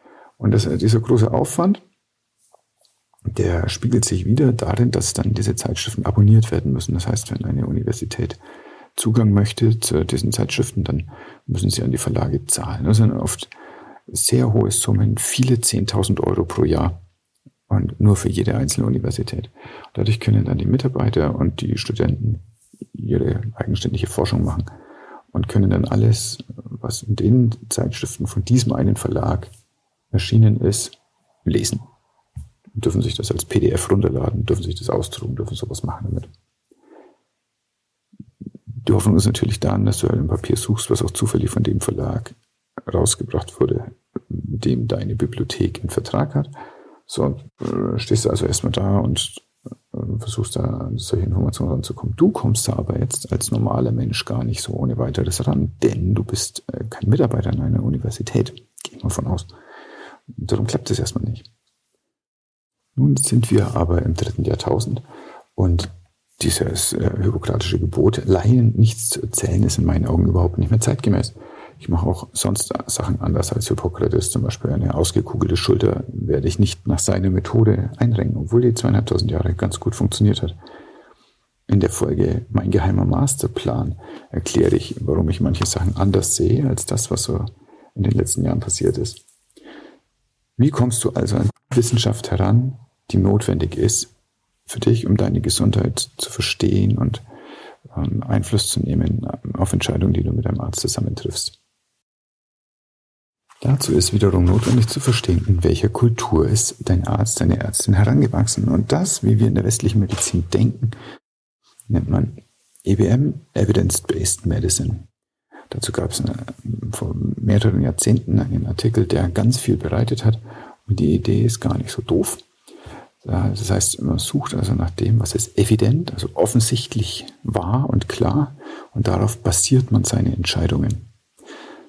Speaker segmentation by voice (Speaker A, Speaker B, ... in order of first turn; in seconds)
Speaker A: 0.4-1.8, 3.3-8.4, 8.9-13.5, 14.1-17.0, 17.7-24.7, 25.3-29.5, 30.1-31.8, 32.7-36.3, 38.8-42.4, 42.9-46.5, 47.1-59.5, 60.3-61.5, 63.0-65.0, 65.5-80.5, 81.7-89.2, 90.6-94.1, 94.7-97.2, 97.9-101.6, 103.6-111.0, 111.9-115.1, 115.7-122.4, 123.2-131.1